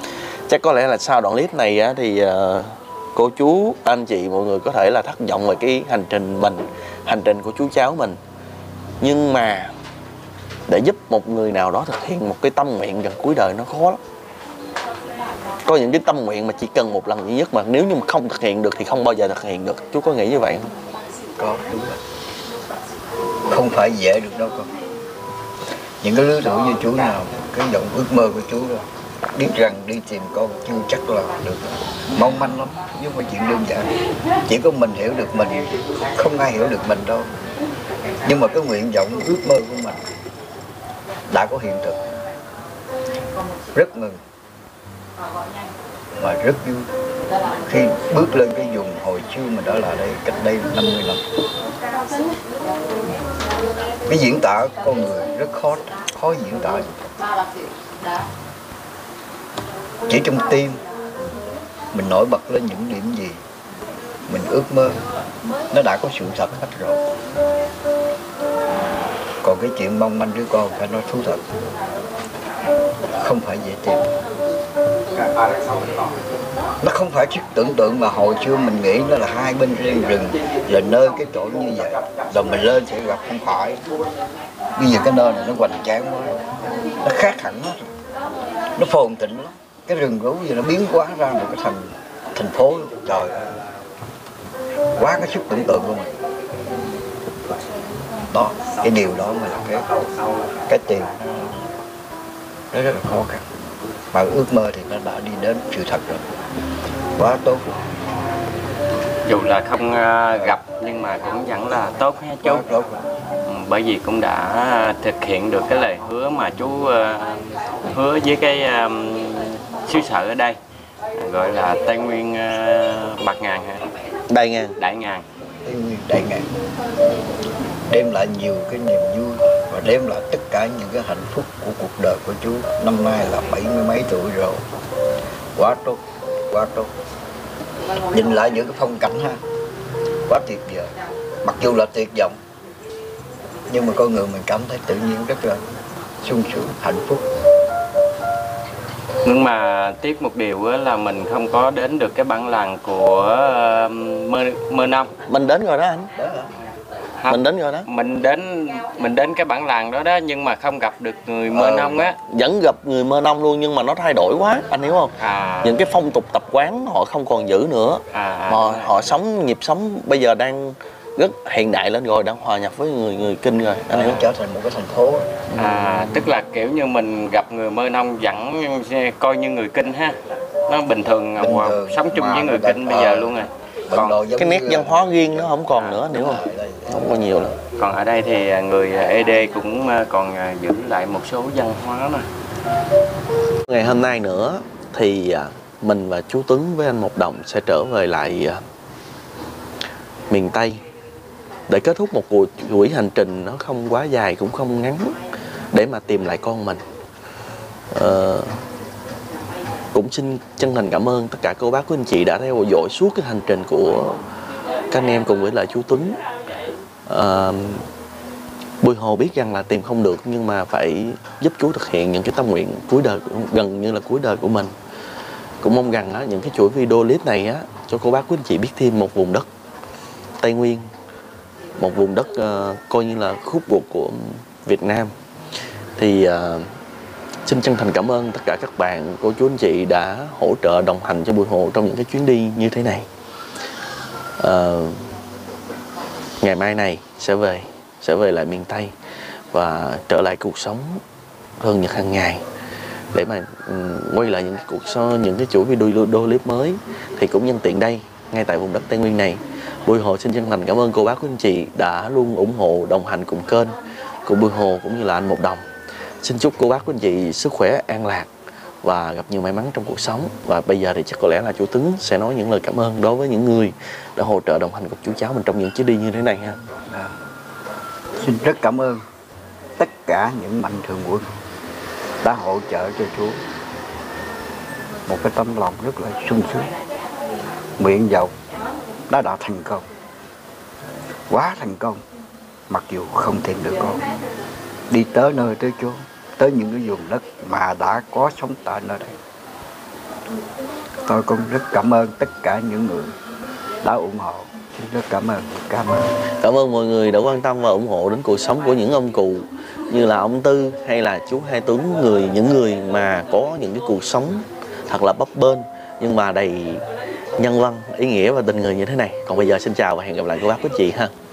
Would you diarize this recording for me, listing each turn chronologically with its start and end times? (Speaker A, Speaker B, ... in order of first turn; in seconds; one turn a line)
Speaker A: 0.5-8.2
Speaker A: 9.0-9.7
Speaker A: 10.7-14.0
Speaker A: 15.7-20.7
Speaker B: 21.4-22.0
Speaker B: 23.5-24.7
Speaker B: 26.0-33.9
Speaker B: 34.5-37.3
Speaker B: 38.2-40.0
Speaker B: 41.3-42.0
Speaker B: 43.7-44.2
Speaker B: 46.2-46.9
Speaker B: 47.7-51.2
Speaker B: 54.1-57.1
Speaker B: 60.1-60.8
Speaker B: 61.9-63.4
Speaker B: 64.3-65.0
Speaker B: 65.7-67.1
Speaker B: 69.4-71.4
Speaker B: 73.1-74.1
Speaker B: 76.8-83.8
Speaker B: 84.8-86.4
Speaker B: 87.0-87.9
Speaker B: 88.8-93.6
Speaker B: 95.0-96.1
Speaker B: 98.3-99.9
Speaker B: 100.7-101.6
Speaker B: 102.7-103.5
Speaker B: 104.1-106.3
Speaker B: 107.2-107.8
Speaker C: 109.2-112.7
Speaker B: 112.4-113.0
Speaker C: 113.5-120.6
Speaker C: 121.2-123.8
Speaker A: 124.3-124.8
Speaker C: 124.8-125.2
Speaker B: 125.7-126.5
Speaker B: 127.9-134.6
Speaker B: 135.6-136.9
Speaker B: 138.1-139.4
Speaker B: 140.3-140.9
Speaker B: 141.4-142.4
Speaker B: 143.7-145.6
Speaker B: 146.2-147.3
Speaker C: 149.2-155.1
Speaker A: 155.3-156.1
Speaker B: 156.2-156.5
Speaker C: 157.2-162.2
Speaker A: 157.3-157.9
Speaker A: 161.5-174.2
Speaker C: 165.2-165.8
Speaker C: 168.1-169.2
Speaker B: 173.9-175.4
Speaker A: 175.5-176.3
Speaker C: 175.6-184.2
Speaker B: 181.4-187.0
Speaker A: 184.4-187.6
Speaker C: 185.7-186.0
Speaker C: 187.8-192.3
Speaker A: 193.7-198.6
Speaker A: 200.3-200.8
Speaker A: 201.7-205.2
Speaker A: 205.7-206.8
Speaker A: 207.9-208.6
Speaker A: 209.9-214.2
Speaker A: 214.9-216.2
Speaker A: 217.1-217.9
Speaker A: 218.8-224.7
Speaker A: 225.6-229.5
Speaker A: 230.4-230.9
Speaker A: 231.8-235.1
Speaker A: 236.0-236.7
Speaker A: 237.5-243.1
Speaker A: 244.4-245.1
Speaker A: 246.4-248.9
Speaker A: 249.5-251.0
Speaker A: 251.6-252.4
Speaker A: 253.1-265.6
Speaker A: 266.2-268.3
Speaker A: 268.8-276.6
Speaker B: 278.2-279.0
Speaker B: 279.8-281.3
Speaker B: 282.2-283.4
Speaker B: 285.1-286.7
Speaker B: 287.8-288.3
Speaker B: 289.1-289.9
Speaker B: 291.3-292.0
Speaker B: 292.7-294.0
Speaker B: 294.9-299.2
Speaker B: 301.1-303.1
Speaker B: 303.8-306.1
Speaker A: 306.4-316.8
Speaker A: 317.4-321.1